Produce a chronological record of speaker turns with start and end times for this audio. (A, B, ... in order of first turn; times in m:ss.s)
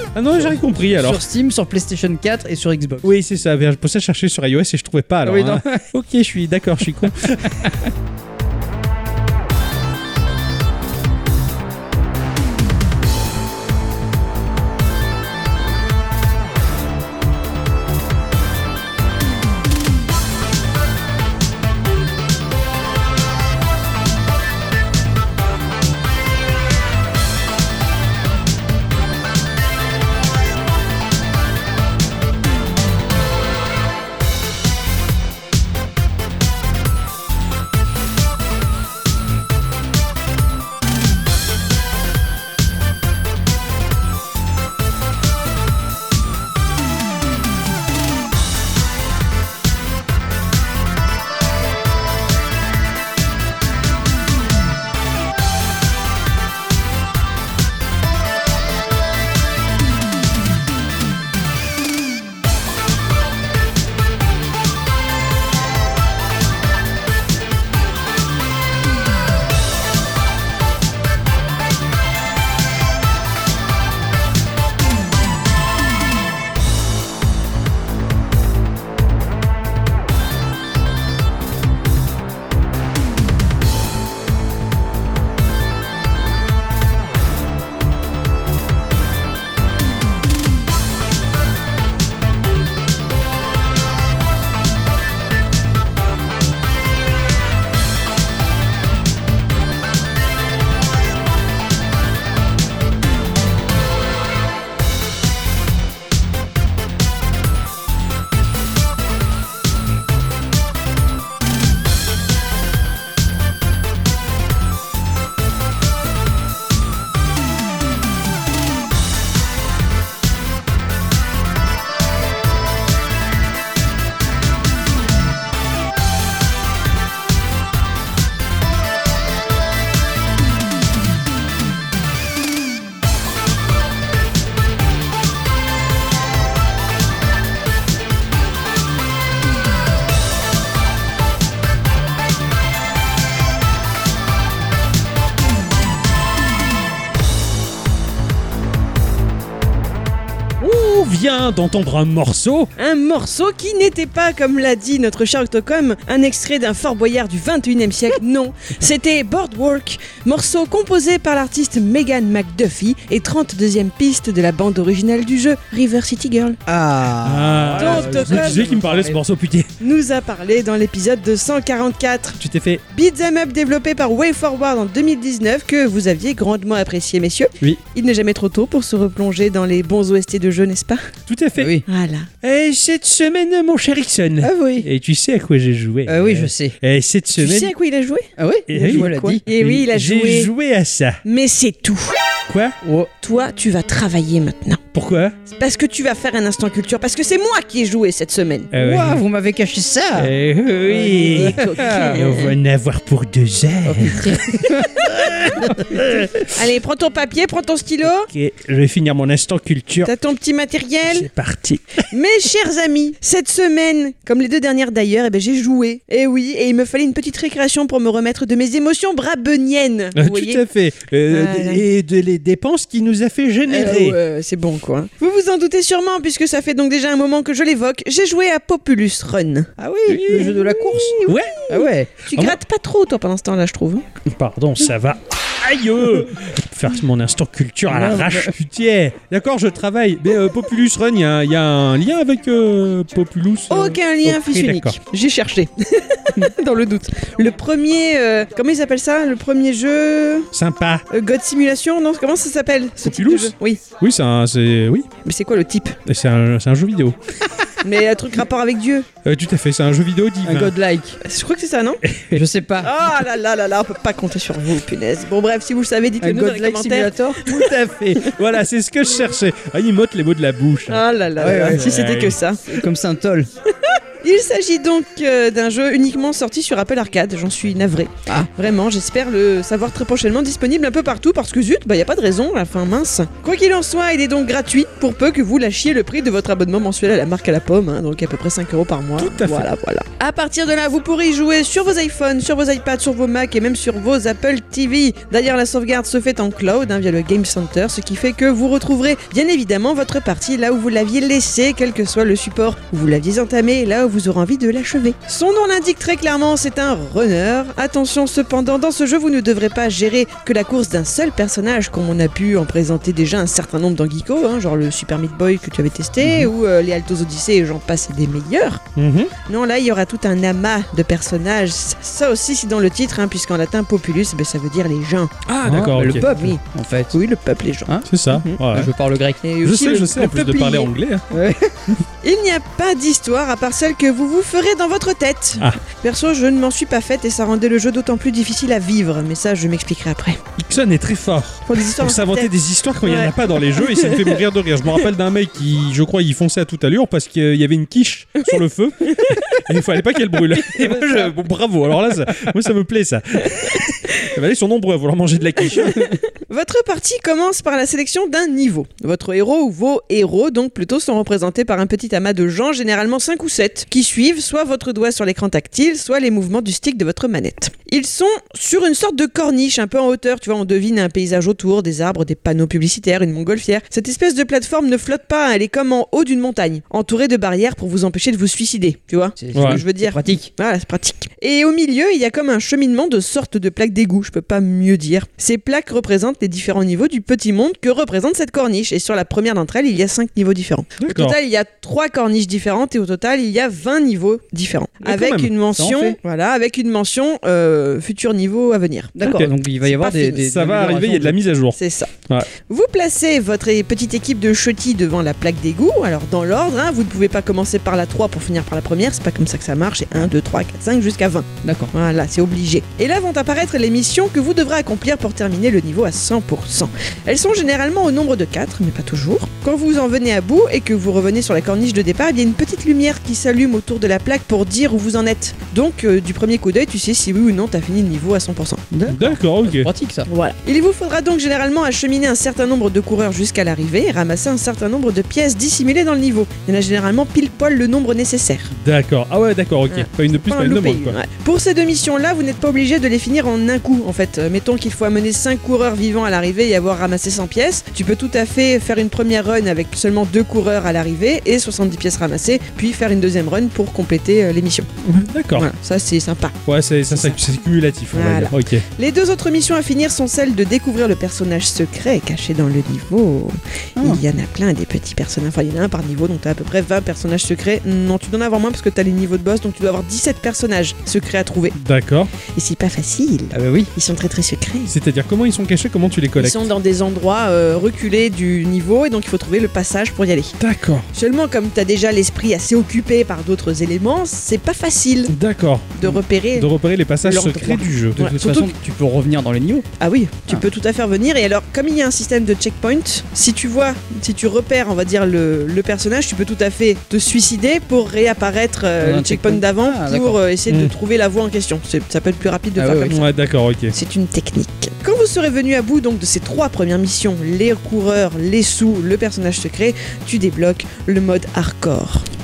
0:00.2-0:01.2 A
0:00.3-0:03.1 B
0:03.0-0:07.7 A
0:05.2-0:05.8 B
0:07.1-0:07.7 B
2:30.6-2:32.7 A
2:32.8-2:46.6 C
2:46.7-2:49.2 B
2:47.2-2:49.7 A
2:47.8-2:48.7 C
2:49.8-2:52.4 C
2:52.4-2:52.8 A
2:52.9-3:01.1 C
3:01.3-3:01.8 A
3:01.6-3:01.8 B
3:01.9-3:02.3 C
3:02.4-3:07.7 A
3:04.4-3:04.9 B
3:06.1-3:06.8 B
3:07.4-3:10.5 C
3:08.4-3:09.4 B
3:08.7-3:11.2 A
3:11.2-3:12.2 C
3:12.5-3:12.8 A
3:12.8-3:13.1 B
3:13.2-3:14.8 C
3:14.9-3:15.4 A
3:15.5-3:18.7 C
3:18.7-3:19.2 A
3:18.7-3:20.3 B
3:20.2-3:26.5 A
3:20.9-3:22.2 B
3:21.1-3:22.5 C
3:23.8-3:25.0 B
3:26.4-3:28.3 C
3:28.3-3:30.1 A
3:30.0-3:31.3 C
3:31.0-3:32.1 A
3:32.1-3:40.6 C
3:40.2-3:44.2 A
3:41.3-3:41.8 C
3:43.7-3:49.7 C
3:49.8-3:52.2 B
3:50.1-3:51.6 A
3:51.3-3:54.0 C
3:54.2-4:05.0 A
3:57.9-3:58.6 B
4:03.7-4:10.5 C
4:10.5-4:11.0 A
4:11.1-4:13.8 C
4:13.0-4:15.1 A
4:15.2-4:16.0 C
4:16.1-4:17.2 A
4:17.8-4:19.1 C
4:19.2-4:20.7 A
4:20.4-4:21.2 B
4:21.2-4:22.0 C
4:22.0-4:22.4 A
4:22.3-4:22.9 B
4:22.8-4:27.7 C
4:26.2-4:27.4 B
4:27.4-4:32.4 A
4:30.9-4:32.8 C
4:31.4-4:31.9 B
4:32.7-4:33.5 B
4:33.9-5:18.8 C
4:49.2-4:49.7 A
5:19.0-5:19.3 A
5:19.5-5:25.4 C
5:25.5-5:26.3 A
5:25.6-5:27.1 B
5:26.1-5:26.6 C
5:27.1-5:28.6 C
5:28.1-5:28.9 A
5:28.7-5:29.4 B
5:29.4-5:30.9 C
5:29.6-5:31.3 A
5:31.3-5:32.0 B
5:32.2-5:40.4 C
5:40.6-5:56.1 A
5:41.7-5:44.4 C
5:48.4-5:49.7 C
5:55.9-6:40.4 C
6:19.4-6:20.5 B
6:19.5-6:19.8 A
6:31.0-6:31.4 A
6:35.0-6:35.5 A
6:35.7-6:36.2 B
6:39.2-6:41.4 B
6:39.2-6:39.5 A
6:40.3-6:42.5 A
6:41.8-7:08.8 C
6:51.6-6:51.9 B
7:08.9-7:10.3 B
7:09.1-7:09.9 A
7:10.3-7:18.7 C
7:18.7-7:21.2 A
7:19.9-7:34.9 C
7:35.0-7:35.7 A
7:35.5-7:36.6 C
7:36.7-7:38.8 A
7:37.1-7:37.4 C
7:38.1-7:51.8 C
7:44.0-7:44.2 B
7:51.8-7:52.3 A
7:52.5-7:54.9 C
7:53.5-7:53.9 B
7:54.9-7:56.7 A
7:56.4-8:00.6 C
8:00.6-8:01.1 A
8:01.1-8:05.3 C
8:05.3-8:08.2 A
8:06.0-8:06.7 C
8:07.2-8:08.7 C
8:08.2-8:09.9 B
8:10.0-8:23.3 C
8:19.0-8:20.4 B
8:20.7-8:20.9 A
8:22.8-8:23.2 B
8:23.1-8:23.9 A
8:23.9-8:32.3 C